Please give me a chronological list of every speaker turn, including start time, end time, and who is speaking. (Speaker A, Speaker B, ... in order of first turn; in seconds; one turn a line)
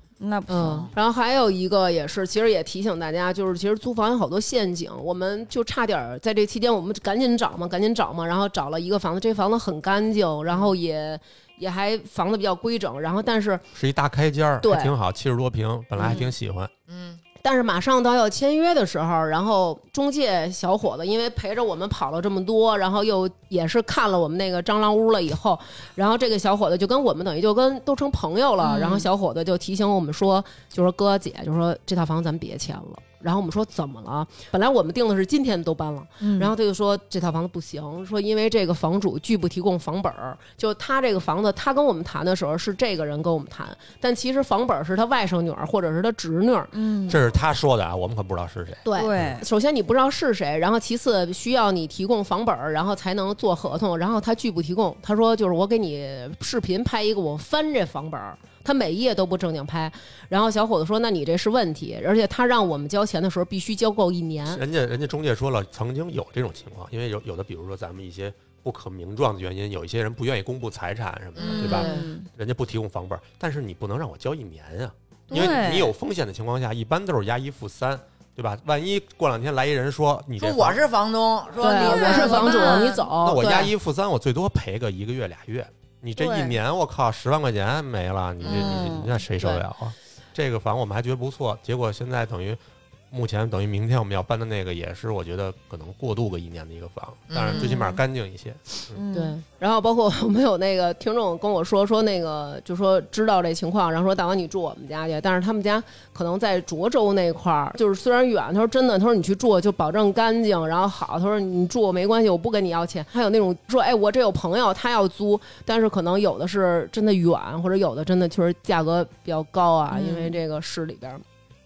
Speaker A: 0.2-0.9
Speaker B: 0.5-13.6
Speaker C: 0.5-0.9
Speaker C: 10.5-10.7
Speaker D: 13.7-16.7
Speaker B: 14.6-14.9
Speaker C: 16.9-17.2
Speaker B: 17.4-46.7
Speaker A: 28.6-29.1
Speaker A: 36.2-36.5
Speaker A: 46.7-47.2
Speaker D: 47.1-49.4
Speaker B: 48.8-64.6
Speaker A: 48.9-49.4
Speaker D: 64.5-80.8
Speaker C: 71.3-71.8
Speaker A: 71.4-72.3
Speaker B: 71.6-72.1
Speaker A: 75.3-75.9
Speaker C: 80.4-82.8
Speaker B: 81.6-83.7
Speaker A: 81.7-83.1
Speaker D: 83.2-92.6
Speaker A: 86.2-86.6
Speaker C: 88.4-88.8
Speaker A: 88.4-89.2
Speaker D: 93.1-99.0
Speaker C: 97.3-97.7
Speaker A: 97.5-98.0
Speaker A: 98.9-99.3
Speaker B: 99.1-121.2
Speaker A: 119.9-120.4